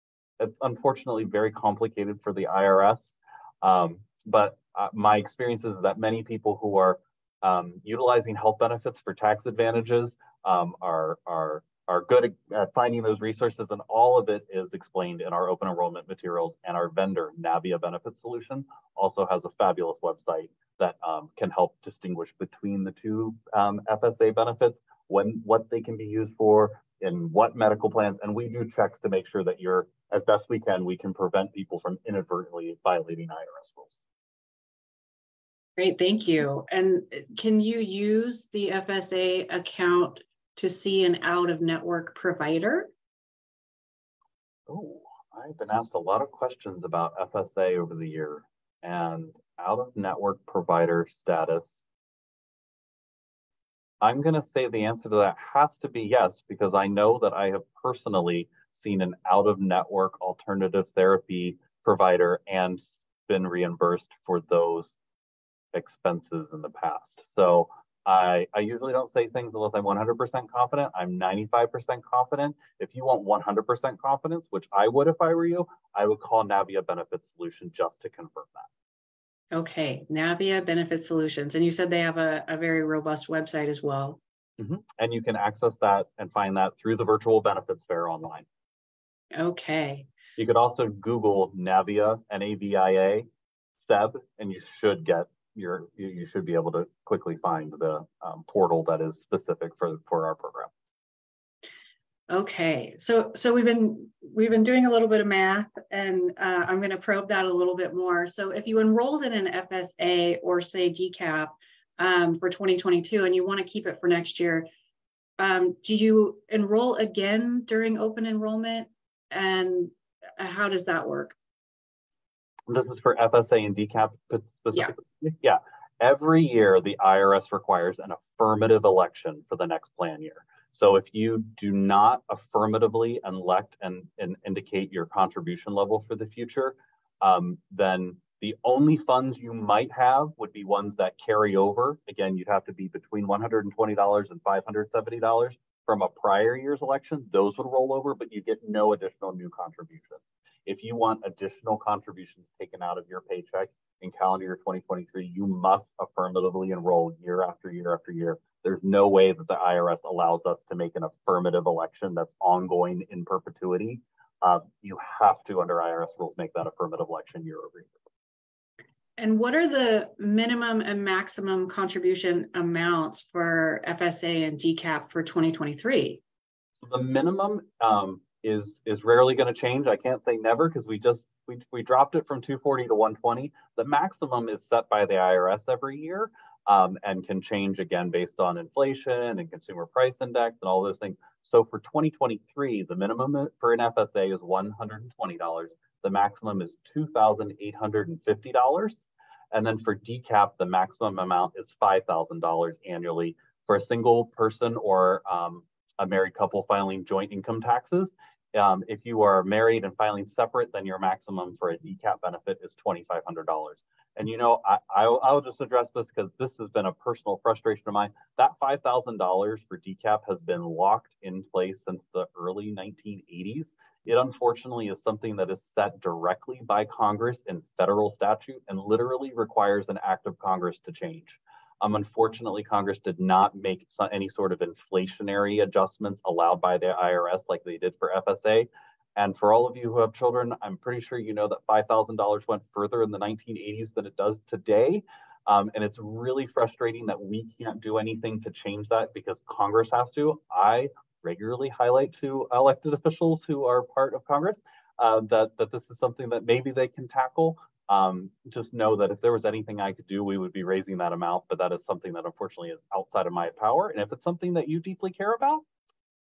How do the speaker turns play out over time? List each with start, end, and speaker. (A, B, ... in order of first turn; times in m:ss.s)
0:00.4-0:34.0 A
0:35.8-0:42.9 B
0:44.7-0:51.8 A
0:54.0-1:04.9 A
1:05.7-1:18.7 A
1:19.5-1:24.2 B
1:24.6-1:28.5 A
1:29.3-1:30.1 B
1:30.4-1:33.2 A
1:33.8-1:40.7 A
1:42.3-1:54.7 B
1:55.4-2:01.4 B
2:02.7-2:48.0 A
2:49.2-2:56.2 B
2:56.8-4:25.6 A